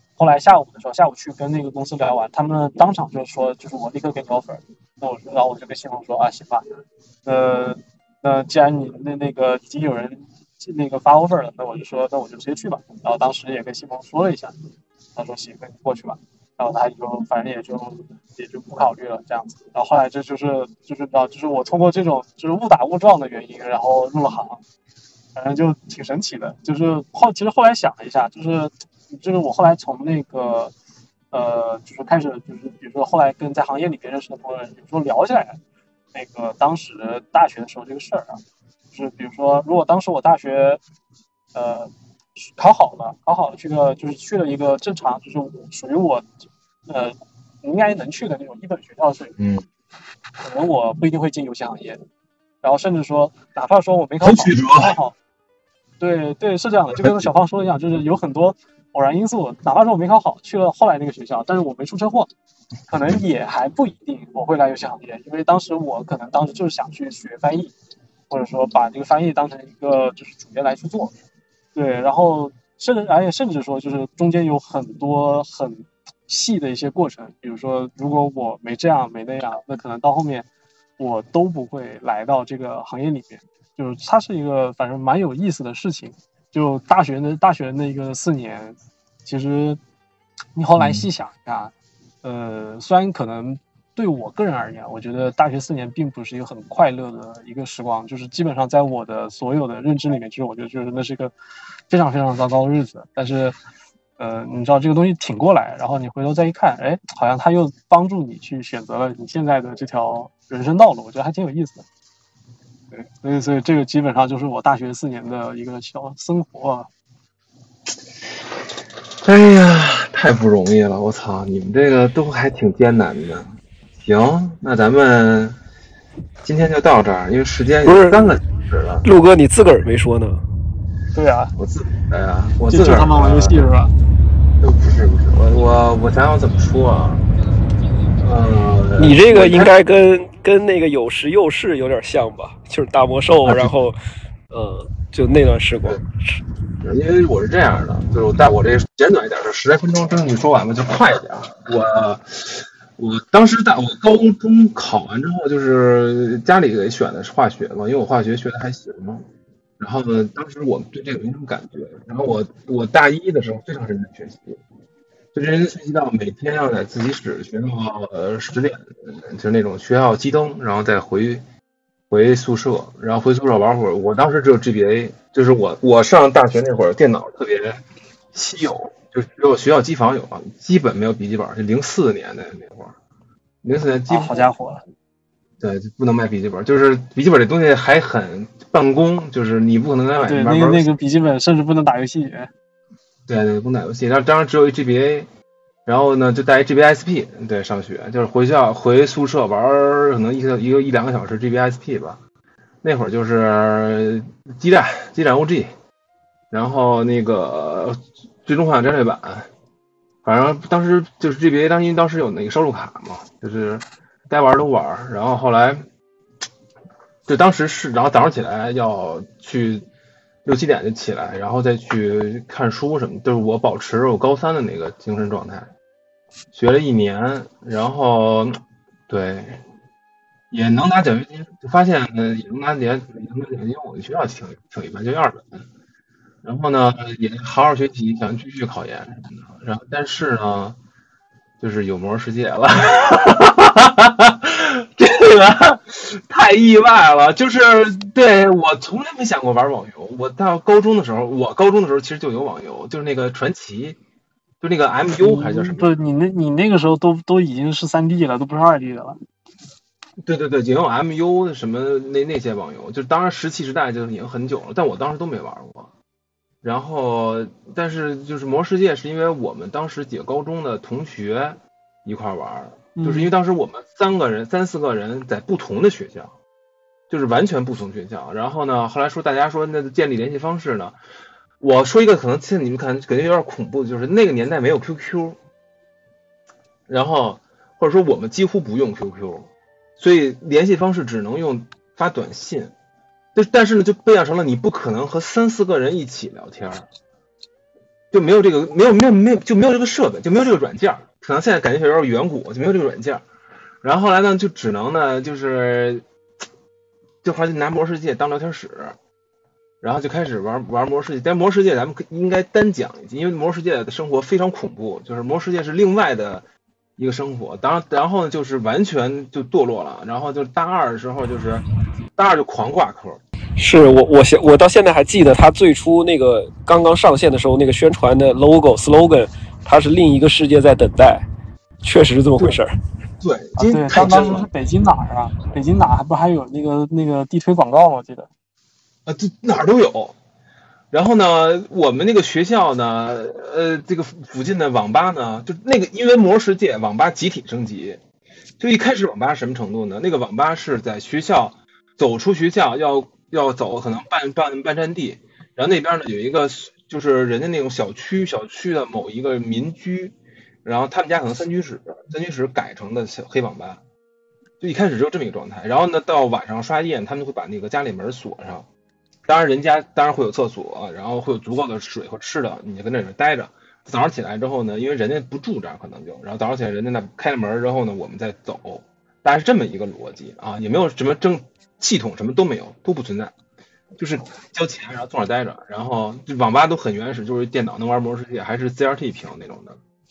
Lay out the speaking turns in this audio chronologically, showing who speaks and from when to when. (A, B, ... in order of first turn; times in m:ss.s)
0:00.2-0:06.6 A
0:07.2-0:14.6 A
0:15.2-0:24.6 A
0:25.4-0:30.7 A
0:31.3-0:35.6 A
0:36.1-0:38.4 A
0:38.9-0:40.8 A
0:41.5-0:46.3 A
0:46.9-0:49.4 A
0:49.4-0:49.7 B
0:50.4-0:52.0 A
0:52.6-0:55.2 A
0:54.2-0:55.0 B
0:56.0-1:02.3 A
0:56.9-0:57.3 B
1:02.9-1:07.7 A
1:08.3-1:11.1 A
1:11.8-1:20.5 A
1:21.0-1:29.8 A
1:30.6-1:31.7 A
1:30.8-1:31.1 B
1:32.2-1:41.3 A
1:41.9-1:43.6 A
1:44.2-1:51.8 A
1:52.9-1:56.9 A
1:59.2-2:05.6 B
2:06.4-2:09.0 B
2:07.8-2:08.2 C
2:09.0-2:10.4 C
2:11.1-2:11.5 A
2:11.6-2:13.6 B
2:12.7-2:13.9 A
2:14.6-2:17.2 B
2:18.2-2:19.7 B
2:19.0-2:24.0 C
2:24.5-2:26.1 C
2:26.8-2:39.3 B
2:39.8-2:44.6 B
2:45.3-2:51.4 B
2:52.1-2:57.8 B
2:58.3-3:03.0 B
3:03.6-3:04.5 B
3:04.1-3:04.8 A
3:05.6-3:10.9 B
3:10.2-3:12.5 A
3:13.3-3:15.3 B
3:15.9-3:22.2 B
3:22.8-3:25.7 B
3:26.5-3:29.5 B
3:30.2-3:35.9 B
3:37.3-3:39.9 B
3:40.4-3:45.7 B
3:46.5-3:49.6 B
3:50.5-3:55.6 B
3:56.4-4:00.8 B
4:01.6-4:14.0 B
4:14.6-4:16.0 B
4:15.1-4:19.2 A
4:20.2-4:25.9 B
4:26.6-4:36.3 B
4:33.0-4:33.3 A
4:37.1-4:41.0 B
4:41.6-4:45.4 B
4:46.9-4:52.7 B
4:53.4-4:56.9 B
4:58.1-5:03.2 B
5:03.8-5:06.0 B
5:07.2-5:09.0 B
5:09.8-5:16.4 B
5:17.0-5:21.6 B
5:22.2-5:23.2 B
5:23.6-5:31.3 C
5:31.8-5:32.7 C
5:33.2-5:34.5 B
5:33.6-5:38.3 A
5:39.1-5:40.2 B
5:40.9-5:48.0 B
5:48.6-6:03.8 B
6:04.6-6:08.7 B
6:09.3-6:23.3 B
6:24.0-6:29.8 B